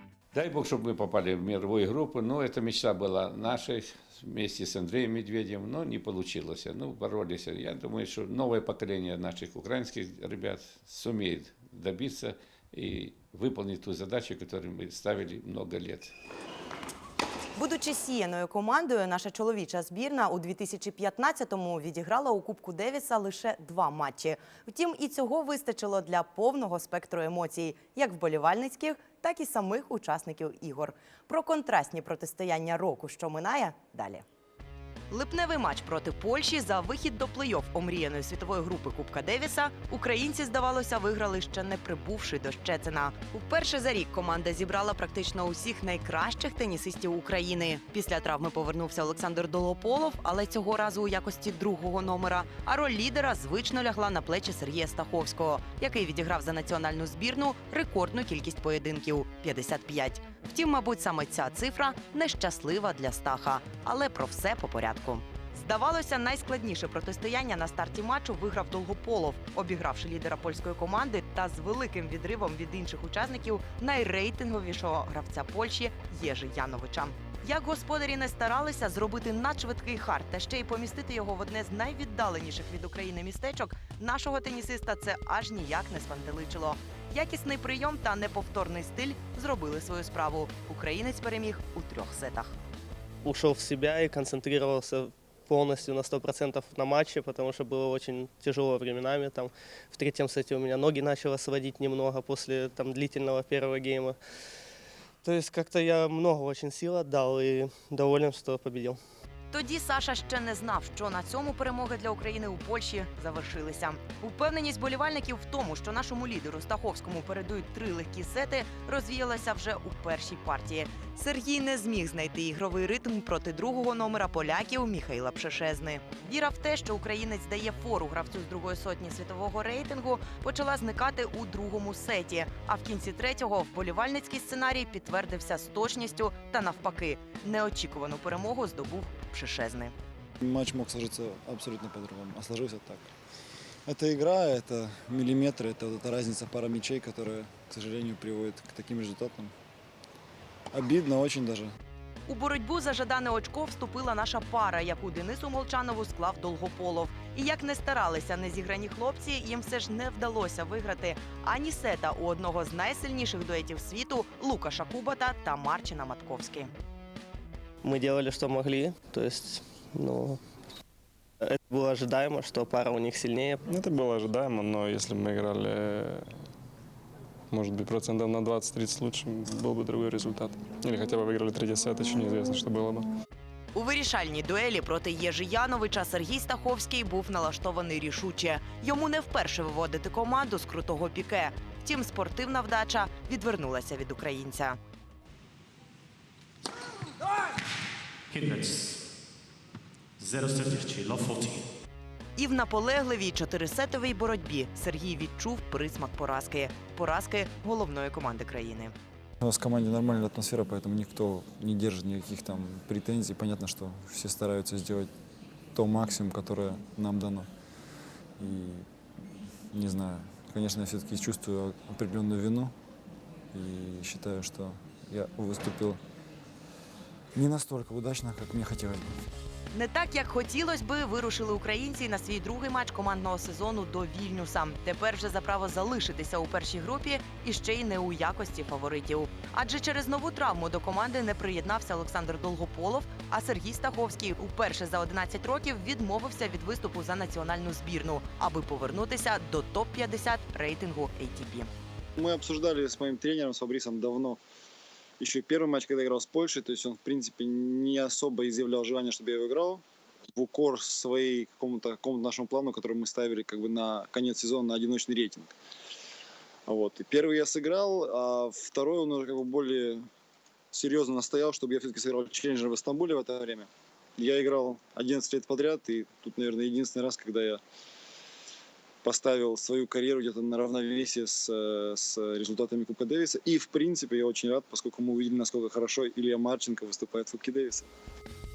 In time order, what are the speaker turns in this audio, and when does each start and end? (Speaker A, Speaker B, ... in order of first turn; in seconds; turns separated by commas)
Speaker A: 0.3-16.1, Speaker B: 17.6-34.2, Speaker B: 35.1-92.6, Speaker C: 93.2-104.2, Speaker C: 105.2-109.0, Speaker B: 109.5-139.9, Speaker D: 140.4-143.1, Speaker D: 143.8-149.5, Speaker D: 150.7-151.7, Speaker B: 152.3-166.7, Speaker C: 167.8-170.4, Speaker C: 171.4-173.6, Speaker E: 173.7-176.3, Speaker E: 177.5-183.1, Speaker B: 183.7-194.8, Speaker F: 198.3-199.0, Speaker F: 200.2-201.7, Speaker B: 202.4-208.9, Speaker D: 209.4-215.1, Speaker D: 215.7-217.5, Speaker D: 218.4-218.9, Speaker D: 219.7-222.7, Speaker D: 223.5-226.0, Speaker D: 227.3-229.2, Speaker B: 229.7-251.7, Speaker G: 252.2-254.4, Speaker G: 255.2-259.8, Speaker G: 260.4-265.5, Speaker G: 266.7-270.0, Speaker G: 270.7-277.6, Speaker G: 279.0-287.9